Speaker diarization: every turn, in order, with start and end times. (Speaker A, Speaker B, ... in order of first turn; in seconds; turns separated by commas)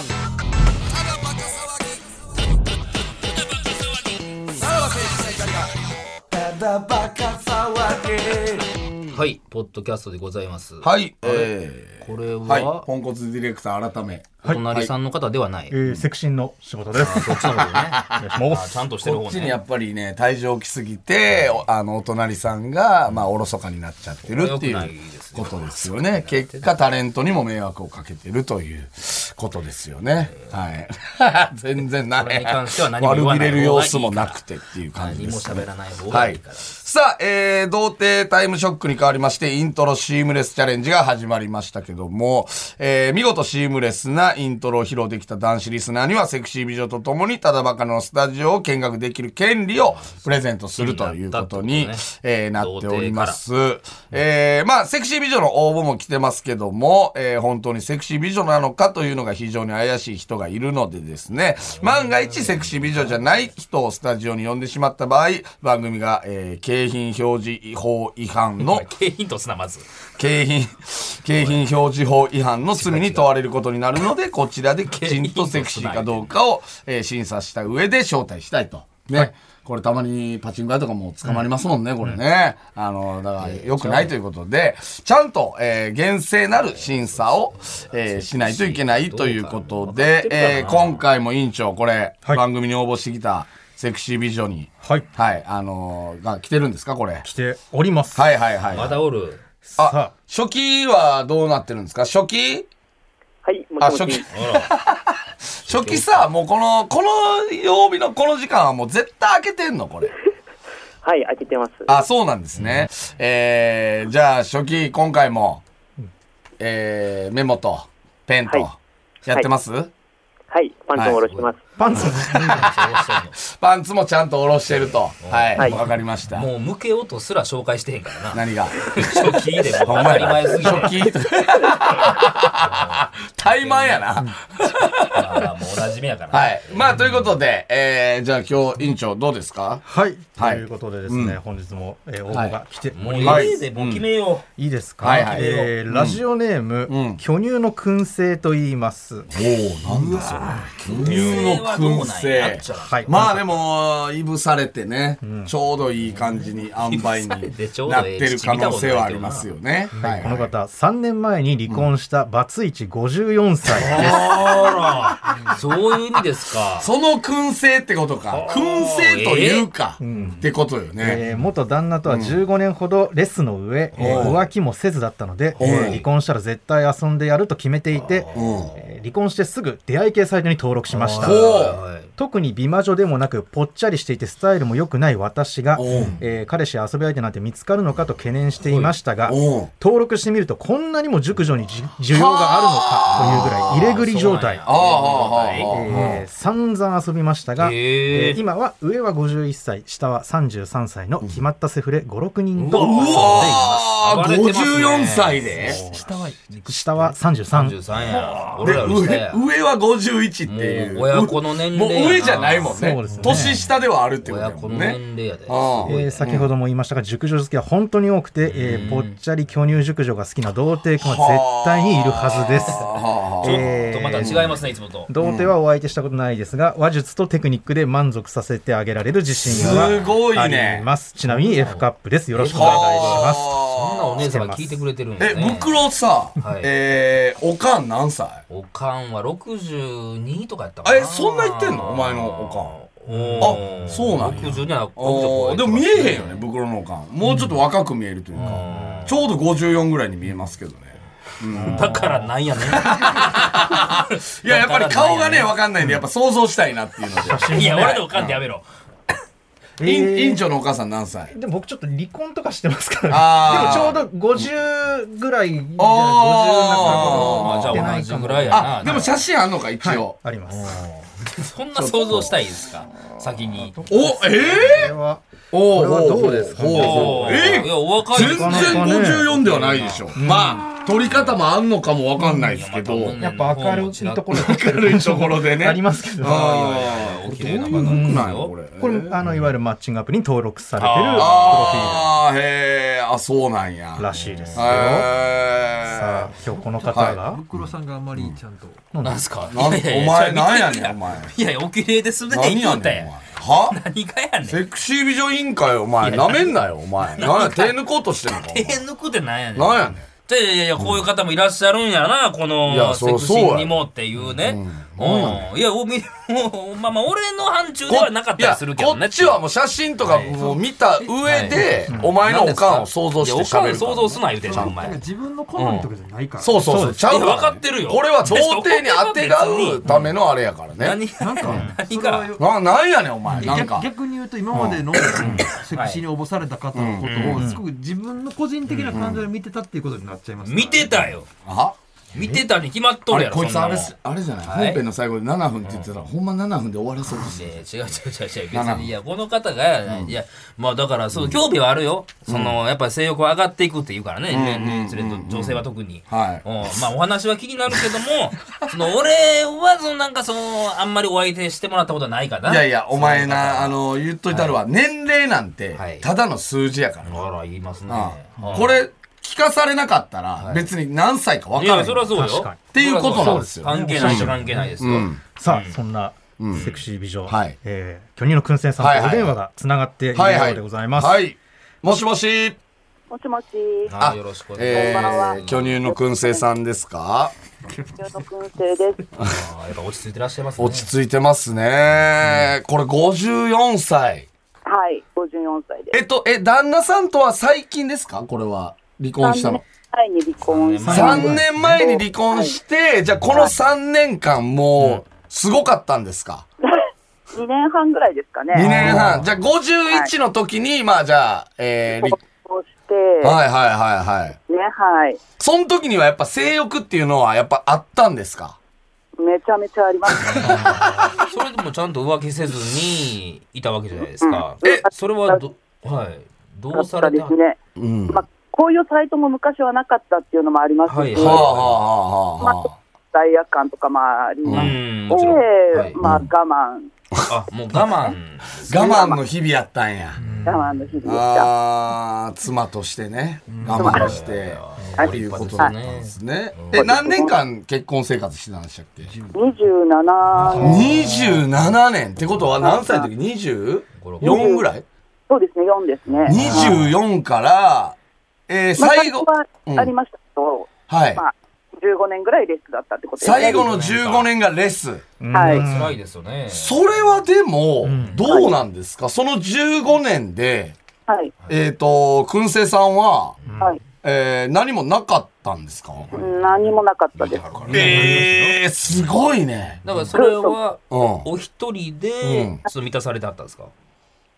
Speaker A: 1.0-2.0, Speaker B: 3.5-4.2, Speaker A: 4.5-9.2, Speaker B: 9.1-12.9, Speaker A: 10.8-14.9, Speaker B: 14.4-15.8, Speaker C: 15.7-18.7, Speaker B: 17.0-19.6, Speaker A: 17.4-18.2, Speaker A: 19.0-68.9, Speaker B: 21.3-21.6, Speaker B: 24.3-26.7, Speaker B: 32.2-34.4, Speaker B: 34.9-36.8, Speaker B: 49.8-53.4, Speaker B: 61.8-63.5, Speaker B: 68.6-69.8, Speaker A: 70.2-97.2, Speaker B: 72.7-73.3, Speaker B: 74.9-76.3, Speaker B: 83.4-84.1, Speaker B: 86.5-91.0, Speaker C: 97.2-98.3, Speaker A: 98.1-99.0, Speaker B: 98.7-99.4, Speaker C: 99.7-100.1, Speaker A: 99.8-102.7, Speaker D: 103.4-104.3, Speaker A: 103.8-110.1, Speaker B: 104.3-104.7, Speaker B: 105.7-106.2, Speaker D: 111.0-111.9, Speaker A: 111.8-115.6, Speaker B: 112.5-113.0, Speaker A: 116.6-119.9, Speaker D: 120.5-121.6, Speaker A: 120.9-121.2, Speaker B: 121.2-123.4, Speaker C: 121.8-122.7, Speaker A: 122.0-126.5, Speaker B: 124.8-131.1, Speaker A: 128.3-135.5, Speaker B: 131.9-134.1, Speaker B: 135.0-137.1, Speaker A: 136.3-139.8, Speaker C: 139.9-143.6, Speaker A: 140.4-141.4, Speaker A: 142.3-142.6, Speaker B: 142.9-144.5, Speaker A: 143.1-144.1, Speaker C: 144.6-149.3, Speaker A: 145.0-146.2, Speaker B: 145.0-145.7, Speaker A: 146.9-147.2, Speaker A: 149.3-160.4, Speaker C: 149.9-151.4, Speaker B: 150.9-153.2, Speaker C: 152.9-153.4, Speaker C: 155.2-155.5, Speaker B: 156.8-159.5, Speaker E: 160.0-160.2, Speaker C: 160.0-164.3, Speaker A: 163.7-165.1, Speaker B: 163.9-166.9, Speaker A: 166.8-171.2, Speaker B: 168.3-169.7, Speaker C: 170.0-170.5, Speaker C: 171.0-194.7, Speaker A: 172.1-172.4, Speaker B: 173.9-174.4, Speaker A: 174.0-174.4, Speaker A: 175.6-176.0, Speaker B: 175.6-176.0, Speaker B: 177.9-178.8, Speaker A: 178.3-178.7, Speaker B: 180.9-182.1, Speaker A: 181.2-181.8, Speaker A: 185.8-186.2, Speaker B: 185.9-186.2, Speaker B: 188.6-189.0, Speaker A: 189.2-189.7, Speaker A: 192.1-194.0, Speaker B: 193.2-196.2, Speaker A: 194.7-196.2, Speaker C: 195.7-203.9, Speaker B: 197.6-198.4, Speaker A: 202.6-205.8, Speaker B: 202.7-205.8, Speaker E: 205.6-207.2, Speaker C: 205.7-208.5, Speaker B: 207.5-209.4, Speaker A: 208.6-216.5, Speaker B: 210.5-213.6, Speaker C: 212.7-213.6, Speaker E: 213.1-213.4, Speaker B: 214.2-216.3, Speaker C: 215.8-224.5, Speaker B: 218.4-219.2, Speaker A: 221.0-224.6, Speaker B: 223.4-225.1, Speaker C: 225.1-233.5, Speaker A: 225.2-225.5, Speaker A: 229.4-230.9, Speaker B: 229.5-230.0, Speaker B: 231.2-235.8, Speaker A: 232.5-234.3, Speaker C: 234.2-234.8, Speaker A: 235.2-238.4, Speaker B: 236.4-236.7, Speaker B: 238.5-246.4, Speaker A: 240.8-242.8, Speaker E: 243.2-243.5, Speaker C: 243.2-243.6, Speaker A: 243.4-252.0, Speaker C: 247.2-247.5, Speaker B: 248.4-249.2, Speaker C: 251.6-252.1, Speaker B: 251.6-255.5, Speaker A: 252.6-258.4, Speaker C: 257.2-258.1, Speaker B: 257.5-258.6, Speaker C: 259.8-260.4, Speaker A: 259.8-261.3, Speaker C: 261.3-269.1, Speaker A: 263.1-264.5, Speaker A: 265.8-267.9, Speaker B: 266.8-269.1, Speaker A: 268.5-270.1, Speaker C: 269.8-270.8, Speaker B: 270.5-273.8, Speaker A: 271.8-272.4, Speaker C: 273.7-279.4, Speaker A: 273.9-274.9, Speaker A: 275.5-283.1, Speaker B: 276.7-280.1, Speaker C: 280.1-280.7, Speaker B: 281.0-281.4, Speaker C: 282.2-282.4, Speaker B: 282.5-284.5, Speaker C: 283.2-286.8, Speaker A: 284.3-289.2, Speaker B: 286.2-288.5, Speaker E: 287.3-288.0, Speaker C: 287.7-288.2, Speaker C: 288.8-292.1, Speaker B: 289.2-289.5, Speaker B: 290.8-292.0, Speaker A: 291.1-296.3, Speaker C: 294.0-295.1, Speaker B: 294.1-295.1, Speaker C: 295.9-297.4, Speaker E: 296.4-298.9, Speaker A: 296.9-297.2, Speaker C: 298.9-299.2, Speaker B: 299.0-304.6, Speaker A: 299.5-301.3, Speaker A: 302.3-303.8, Speaker A: 304.4-308.8, Speaker B: 306.0-307.8, Speaker B: 308.3-319.4, Speaker A: 309.5-310.1, Speaker A: 310.8-311.0, Speaker A: 312.6-315.4, Speaker A: 317.9-324.7, Speaker B: 320.0-320.4, Speaker E: 320.1-321.9, Speaker B: 321.2-325.0, Speaker E: 324.4-326.8, Speaker B: 325.5-325.9, Speaker A: 326.4-331.6, Speaker C: 326.6-327.1, Speaker B: 327.1-330.1, Speaker B: 330.8-332.3, Speaker E: 331.2-332.4, Speaker C: 331.4-331.7, Speaker A: 332.4-333.9, Speaker C: 333.3-333.6, Speaker E: 333.3-341.2, Speaker C: 334.5-335.5, Speaker A: 334.6-335.4, Speaker B: 335.7-336.0, Speaker A: 336.8-337.4, Speaker B: 337.0-337.4, Speaker C: 337.4-337.6, Speaker B: 338.7-339.0, Speaker A: 338.9-339.2, Speaker B: 340.4-341.3, Speaker A: 341.4-342.4, Speaker B: 342.1-344.8, Speaker A: 343.1-347.6, Speaker B: 345.6-345.9, Speaker B: 347.1-363.8, Speaker A: 348.5-348.9, Speaker A: 349.9-350.2, Speaker A: 352.2-352.6, Speaker A: 354.3-356.8, Speaker A: 362.4-367.2, Speaker B: 364.3-364.6, Speaker B: 365.8-366.1, Speaker B: 367.0-368.8, Speaker A: 367.9-372.1, Speaker B: 370.4-370.7, Speaker B: 371.5-375.8, Speaker C: 372.1-374.8, Speaker A: 372.7-375.2, Speaker C: 375.3-381.2, Speaker A: 376.4-376.7, Speaker B: 376.5-376.9, Speaker A: 377.2-377.6, Speaker A: 378.8-379.3, Speaker A: 380.1-382.6, Speaker F: 383.1-383.9, Speaker B: 383.9-385.8, Speaker A: 384.0-387.3, Speaker F: 384.7-386.4, Speaker F: 388.0-389.0, Speaker B: 389.2-390.9, Speaker A: 390.6-394.3, Speaker B: 392.2-392.5, Speaker F: 394.6-396.0, Speaker A: 395.9-399.6, Speaker F: 399.2-402.6, Speaker B: 400.4-401.8, Speaker A: 400.9-406.4, Speaker B: 404.8-405.0, Speaker F: 406.6-408.7, Speaker A: 408.5-412.1, Speaker B: 408.6-409.4, Speaker F: 411.9-413.4, Speaker A: 413.2-414.4, Speaker F: 414.5-415.2, Speaker A: 415.4-418.6, Speaker F: 419.2-420.6, Speaker B: 420.2-427.4, Speaker A: 420.3-420.8, Speaker F: 424.2-425.4, Speaker F: 426.7-427.6, Speaker A: 427.8-428.2, Speaker F: 428.1-431.5, Speaker B: 430.9-431.8, Speaker A: 431.1-432.7, Speaker F: 432.4-436.9, Speaker A: 434.4-434.8, Speaker B: 434.5-436.0, Speaker B: 437.3-439.0, Speaker A: 438.6-440.2, Speaker F: 438.7-439.2, Speaker E: 440.2-441.0, Speaker F: 440.4-441.5, Speaker A: 441.0-449.1, Speaker E: 443.5-444.2, Speaker B: 443.7-446.9, Speaker F: 443.7-444.1, Speaker F: 444.9-445.7, Speaker F: 446.7-447.3, Speaker E: 449.0-449.7, Speaker F: 449.3-450.9, Speaker E: 450.3-451.3, Speaker A: 450.6-454.8, Speaker F: 452.6-453.1, Speaker B: 454.0-454.4, Speaker F: 454.2-454.6, Speaker F: 455.3-456.8, Speaker B: 456.1-456.9, Speaker A: 456.3-458.0, Speaker A: 458.5-459.9, Speaker F: 458.8-463.7, Speaker A: 460.9-461.2, Speaker A: 463.2-465.1, Speaker B: 463.4-464.3, Speaker C: 465.2-465.9, Speaker F: 465.3-465.6, Speaker B: 465.4-467.2, Speaker A: 466.5-470.8, Speaker C: 467.8-468.3, Speaker B: 468.0-468.2, Speaker F: 468.3-468.5, Speaker A: 471.5-473.4, Speaker B: 473.4-473.8, Speaker A: 474.0-476.1, Speaker B: 476.0-478.2, Speaker F: 476.1-477.5, Speaker E: 477.7-478.4, Speaker A: 477.7-479.8, Speaker C: 477.7-478.2, Speaker B: 479.8-483.7, Speaker F: 480.1-480.6, Speaker A: 480.9-481.3, Speaker A: 482.2-482.6